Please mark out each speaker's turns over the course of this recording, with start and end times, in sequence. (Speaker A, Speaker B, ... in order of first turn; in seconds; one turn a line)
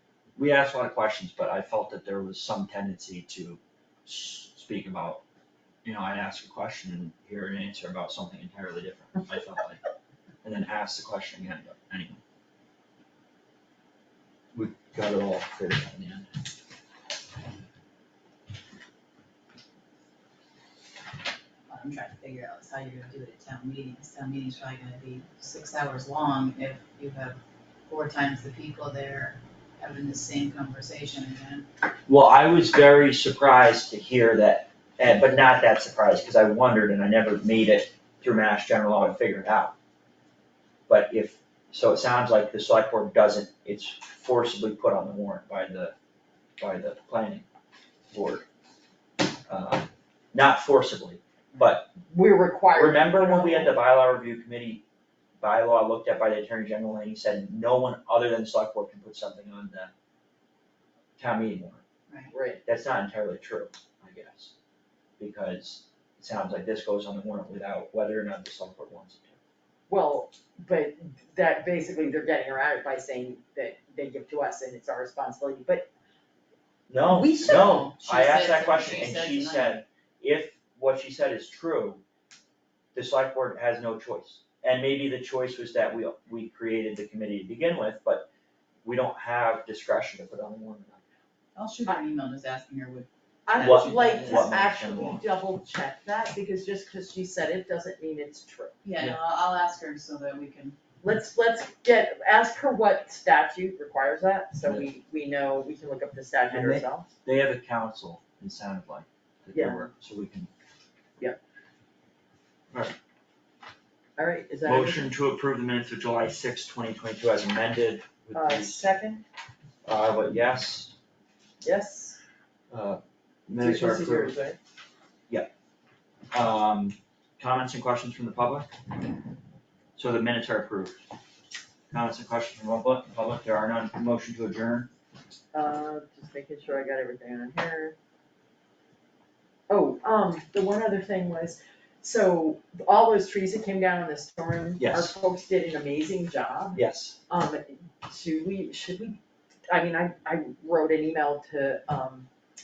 Speaker A: 0.4-5.2
Speaker A: 5.8-9.8
Speaker A: 10.4-12.2
Speaker A: 14.5-16.3
Speaker B: 21.7-31.7
Speaker A: 32.1-39.7
Speaker A: 40.9-45.9
Speaker A: 46.6-47.4
Speaker A: 48.1-48.4
Speaker A: 49.5-51.9
Speaker C: 52.1-53.8
Speaker A: 52.7-54.8
Speaker A: 55.4-59.9
Speaker A: 61.2-61.8
Speaker C: 62.3-62.6
Speaker A: 62.6-64.5
Speaker A: 65.2-69.4
Speaker C: 69.9-75.9
Speaker A: 76.9-82.0
Speaker B: 77.2-79.8
Speaker A: 82.9-88.3
Speaker A: 88.8-91.0
Speaker B: 91.5-94.5
Speaker C: 93.5-98.7
Speaker A: 93.6-95.2
Speaker B: 98.8-100.8
Speaker C: 101.0-107.1
Speaker A: 106.5-110.5
Speaker C: 109.5-109.8
Speaker C: 114.2-115.1
Speaker A: 114.6-118.8
Speaker C: 118.3-119.2
Speaker A: 119.8-120.9
Speaker C: 121.6-122.2
Speaker A: 122.7-124.3
Speaker C: 123.6-124.6
Speaker A: 126.3-128.7
Speaker A: 129.9-131.0
Speaker A: 131.9-134.9
Speaker C: 135.5-137.9
Speaker C: 139.7-152.3
Speaker A: 144.8-145.1
Speaker A: 146.7-147.2